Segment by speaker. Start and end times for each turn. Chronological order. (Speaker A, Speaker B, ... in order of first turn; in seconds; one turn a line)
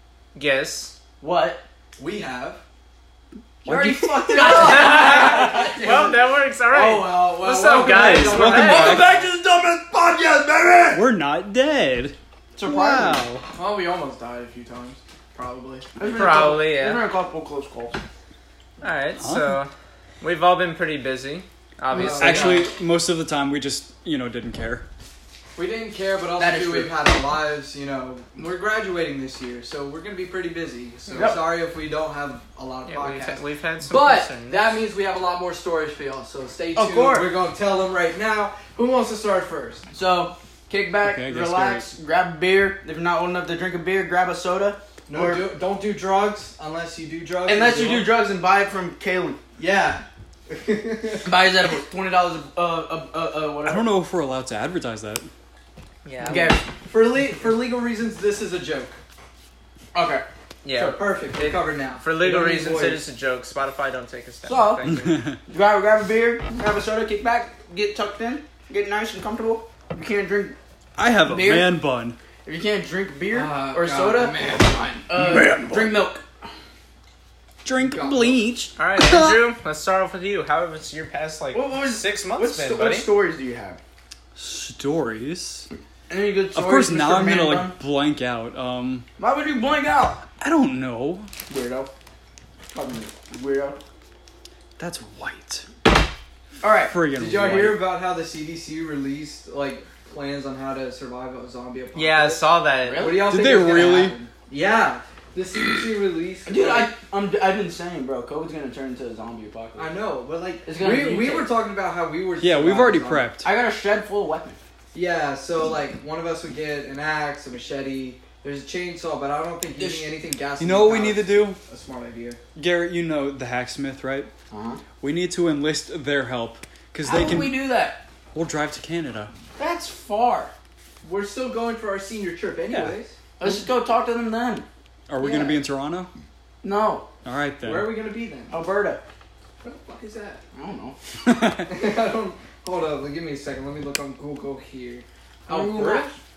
Speaker A: 0.3-0.9
Speaker B: 1.2-1.6
Speaker C: 2.0-2.6
Speaker D: 3.6-4.8
Speaker B: 3.6-11.0
Speaker A: 4.4-9.0
Speaker C: 4.5-6.1
Speaker D: 7.8-9.2
Speaker C: 8.1-9.0
Speaker D: 10.9-13.4
Speaker B: 12.5-13.2
Speaker C: 13.5-15.8
Speaker B: 15.9-18.0
Speaker A: 16.1-17.0
Speaker A: 18.8-19.7
Speaker D: 19.2-19.6
Speaker A: 20.2-22.7
Speaker C: 21.9-22.7
Speaker D: 22.0-24.8
Speaker C: 25.5-39.9
Speaker B: 26.4-27.0
Speaker B: 31.1-31.4
Speaker A: 32.9-34.7
Speaker B: 36.7-37.3
Speaker B: 39.9-45.5
Speaker D: 41.0-41.9
Speaker C: 45.1-48.1
Speaker B: 47.4-50.0
Speaker C: 49.6-49.9
Speaker C: 50.5-51.2
Speaker B: 51.2-53.9
Speaker D: 53.6-55.3
Speaker A: 56.0-56.5
Speaker C: 56.2-59.0
Speaker B: 56.3-56.6
Speaker B: 59.9-60.2
Speaker A: 60.6-65.1
Speaker C: 60.7-63.0
Speaker B: 64.5-70.6
Speaker D: 64.8-65.4
Speaker D: 71.0-72.2
Speaker B: 71.2-71.7
Speaker B: 72.4-74.3
Speaker C: 73.3-75.1
Speaker B: 75.1-76.2
Speaker D: 75.2-75.9
Speaker B: 77.6-78.7
Speaker C: 77.8-78.4
Speaker A: 78.8-83.1
Speaker D: 79.0-79.4
Speaker B: 81.5-83.8
Speaker D: 84.3-85.7
Speaker B: 86.1-87.7
Speaker D: 86.5-89.1
Speaker B: 89.2-90.2
Speaker D: 90.4-91.3
Speaker B: 91.5-91.9
Speaker B: 92.7-93.8
Speaker D: 94.8-95.7
Speaker B: 96.6-96.9
Speaker D: 96.9-97.8
Speaker C: 97.1-102.4
Speaker A: 101.9-103.1
Speaker B: 102.8-103.4
Speaker C: 103.0-106.9
Speaker D: 103.2-104.2
Speaker B: 106.5-109.9
Speaker C: 109.8-113.3
Speaker B: 110.6-111.5
Speaker D: 112.4-113.5
Speaker B: 113.4-114.6
Speaker C: 114.9-122.4
Speaker B: 119.8-120.1
Speaker D: 120.6-121.6
Speaker D: 122.5-124.3
Speaker B: 124.5-124.8
Speaker D: 125.0-127.5
Speaker B: 127.0-128.0
Speaker D: 128.3-129.3
Speaker B: 129.6-130.5
Speaker C: 131.0-133.1
Speaker D: 132.7-132.9
Speaker B: 133.4-134.7
Speaker D: 135.1-136.1
Speaker C: 135.2-135.6
Speaker B: 136.6-137.1
Speaker D: 137.2-137.9
Speaker C: 137.6-138.5
Speaker B: 138.5-139.0
Speaker C: 139.6-140.4
Speaker B: 140.5-141.0
Speaker D: 141.2-141.7
Speaker C: 141.7-146.1
Speaker B: 145.5-146.2